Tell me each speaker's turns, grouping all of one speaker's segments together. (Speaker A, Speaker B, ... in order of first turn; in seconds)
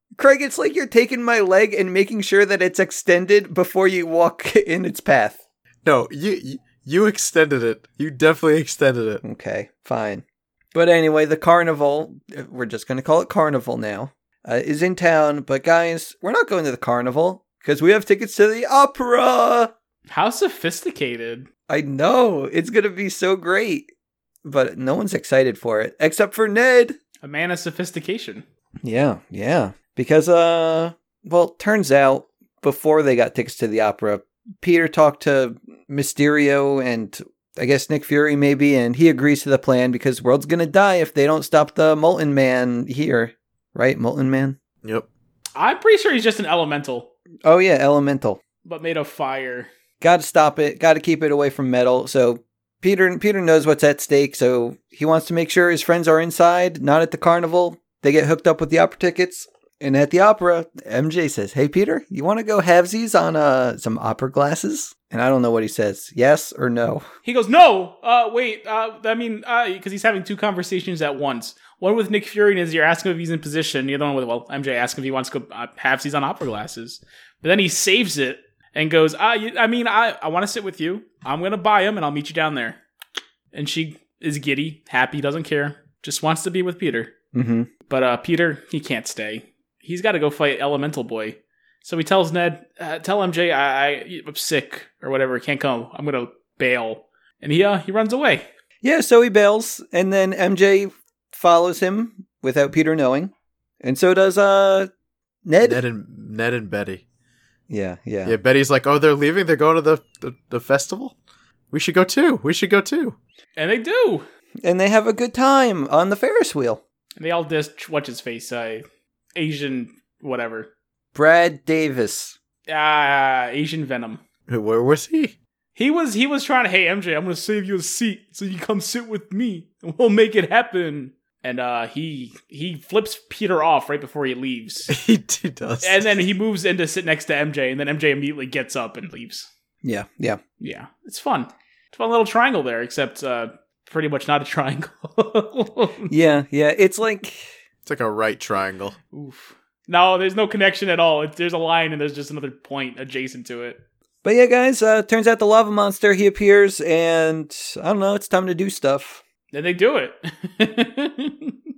Speaker A: 0.2-5.4, 9.2-19.7, 21.7-23.9, 24.4-27.0, 28.8-44.6, 47.5-48.4, 50.0-67.1, 87.3-87.7, 98.8-104.9, 105.5-105.8, 107.7-108.4, 114.6-116.8, 121.2-122.3, 139.8-140.4, 146.1-147.5, 154.2-159.2
Speaker B: 5.8-9.2, 105.6-107.0, 108.2-111.1, 111.7-113.2, 124.5-125.3, 134.9-136.2, 147.8-149.0
Speaker C: 20.1-21.5, 27.2-28.4, 45.6-47.1, 48.6-49.7, 67.2-82.8, 83.5-87.1, 87.9-98.5, 113.6-114.2, 117.2-118.8, 119.4-120.7, 122.7-124.2, 125.8-134.9, 135.8-139.5, 140.6-146.1, 149.1-153.8, 159.5-161.5